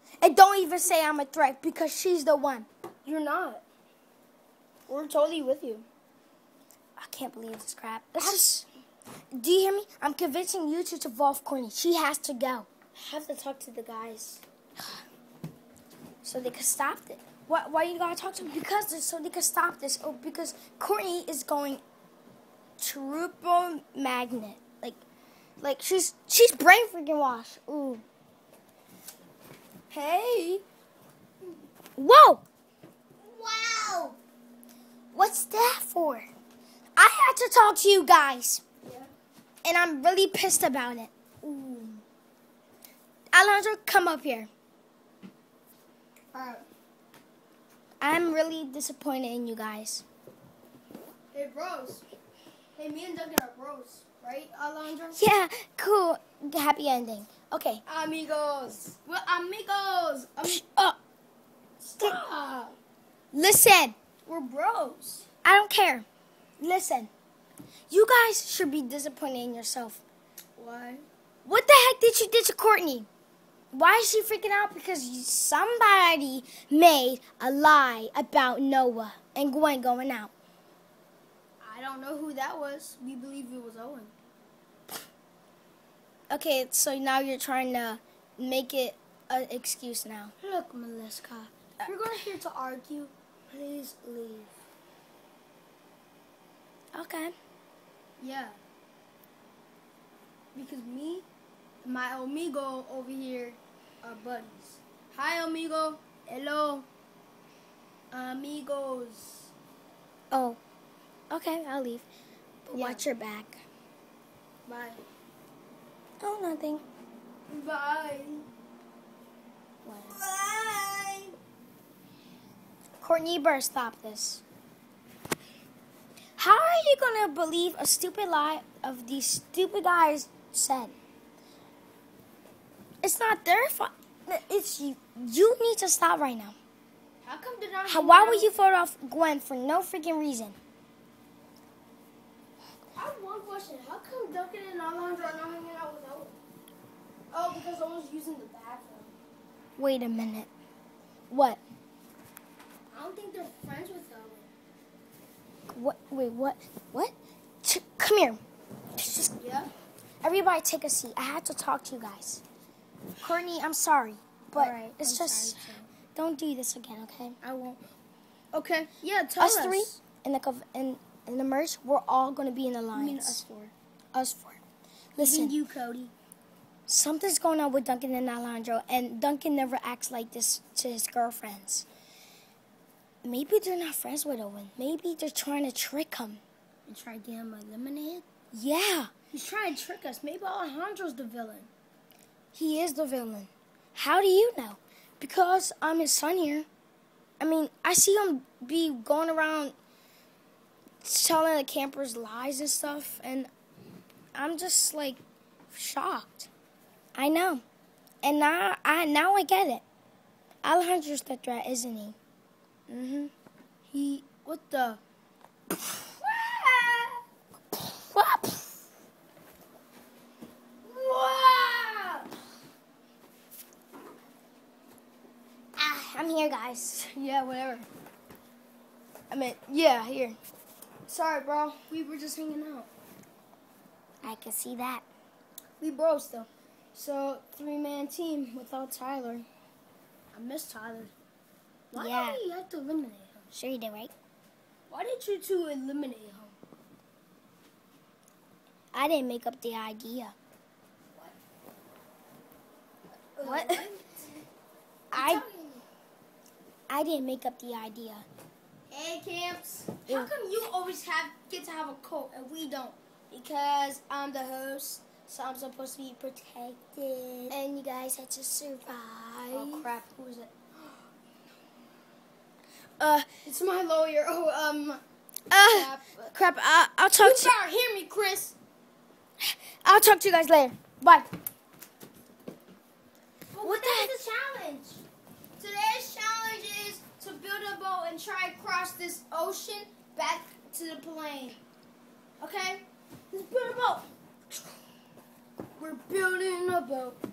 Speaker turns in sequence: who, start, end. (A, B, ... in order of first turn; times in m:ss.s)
0:00.2-0:02.7 A
0:03.0-0:03.6 B
0:04.9-0:05.9 B
0:07.0-0:08.6 A
0:09.3-0:12.7 A
0:12.9-0:14.4 B
0:16.2-0:21.8 A
0:22.8-0:25.0 A
0:25.6-0:28.0 A
0:29.9-0:30.6 B
0:32.0-0:32.4 A
0:33.2-0:34.2 B
0:35.1-0:36.3 A
0:37.0-0:38.6 A
0:38.8-0:39.1 B
0:39.6-0:41.9 A
0:43.3-0:44.5 A
0:46.3-0:46.6 B
0:48.0-0:50.0 A
0:51.3-0:52.1 B
0:52.8-0:55.2 B
0:55.2-0:57.8 A
0:57.9-1:00.6 B
1:00.4-1:01.0 A
1:01.8-1:02.8 B
1:03.3-1:04.0 A
1:04.3-1:05.3 B
1:05.4-1:06.1 A
1:06.6-1:07.1 A
1:07.9-1:10.0 A
1:10.6-1:11.0 B
1:11.4-1:13.1 A
1:13.7-1:20.3 A
1:21.6-1:24.1 B
1:26.3-1:30.3 A
1:30.4-1:34.6 B
1:36.9-1:37.4 A
1:38.2-1:38.6 B
1:40.6-1:41.3 B
1:41.8-1:46.9 B
1:48.1-1:49.5 B
1:50.3-1:50.6 A
1:51.3-1:52.1 A
1:52.6-1:53.6 A
1:52.7-1:53.1 B
1:54.7-1:55.0 B
1:56.2-1:56.8 A
1:57.5-1:58.4 B
1:59.8-2:00.2 A
2:00.0-2:01.4 B
2:03.0-2:04.4 A
2:06.4-2:11.0 A
2:13.0-2:16.6 A
2:17.2-2:18.6 B
2:17.9-2:20.6 A
2:23.0-2:26.4 B
2:27.3-2:29.2 B
2:29.8-2:30.5 A
2:31.3-2:31.6 A
2:32.9-2:34.5 B
2:35.7-2:38.4 A
2:39.0-2:39.3 A
2:39.4-2:39.7 B
2:40.2-2:42.4 A
2:43.2-2:47.4 A
2:44.5-2:45.9 B
2:47.4-2:47.8 B
2:48.5-2:50.0 B
2:49.4-2:53.4 A
2:52.9-2:53.7 B
2:54.1-2:54.6 A
2:55.2-2:55.6 A
2:55.2-2:56.1 B
2:56.9-3:01.9 A
3:03.2-3:06.4 A
3:06.9-3:08.2 B
3:08.5-3:09.1 A
3:09.3-3:11.7 B
3:12.5-3:16.7 A
3:17.4-3:19.8 A
3:21.0-3:23.5 A
3:24.3-3:25.2 A
3:25.7-3:26.5 A
3:27.2-3:27.6 A
3:28.2-3:29.8 A
3:30.6-3:32.2 A
3:32.9-3:33.3 A
3:33.9-3:35.0 B
3:36.2-3:37.2 B
3:38.0-3:38.7 A
3:40.8-3:42.3 B
3:45.8-3:47.1 A
3:47.0-3:47.9 B
3:49.3-3:50.4 A
3:51.1-3:52.9 B
3:54.2-3:55.0 A
3:55.8-3:59.5 B
4:00.3-4:01.1 B
4:01.9-4:03.5 B
4:02.0-4:02.4 A
4:03.5-4:04.1 A
4:04.9-4:06.6 B
4:08.9-4:10.4 A
4:13.4-4:14.2 B
4:13.4-4:13.8 A
4:15.1-4:15.4 A
4:15.1-4:15.8 B
4:16.9-4:18.3 A
4:18.9-4:26.4 B
4:26.2-4:29.9 A
4:29.5-4:31.0 B
4:33.0-4:33.3 A
4:33.4-4:35.0 B
4:35.5-4:37.6 A
4:35.5-4:36.3 B
4:37.2-4:38.6 B
4:39.4-4:41.3 A
4:43.5-4:45.0 B
4:43.6-4:44.1 A
4:45.6-4:51.6 B
4:52.4-4:54.1 B
4:55.8-4:57.2 B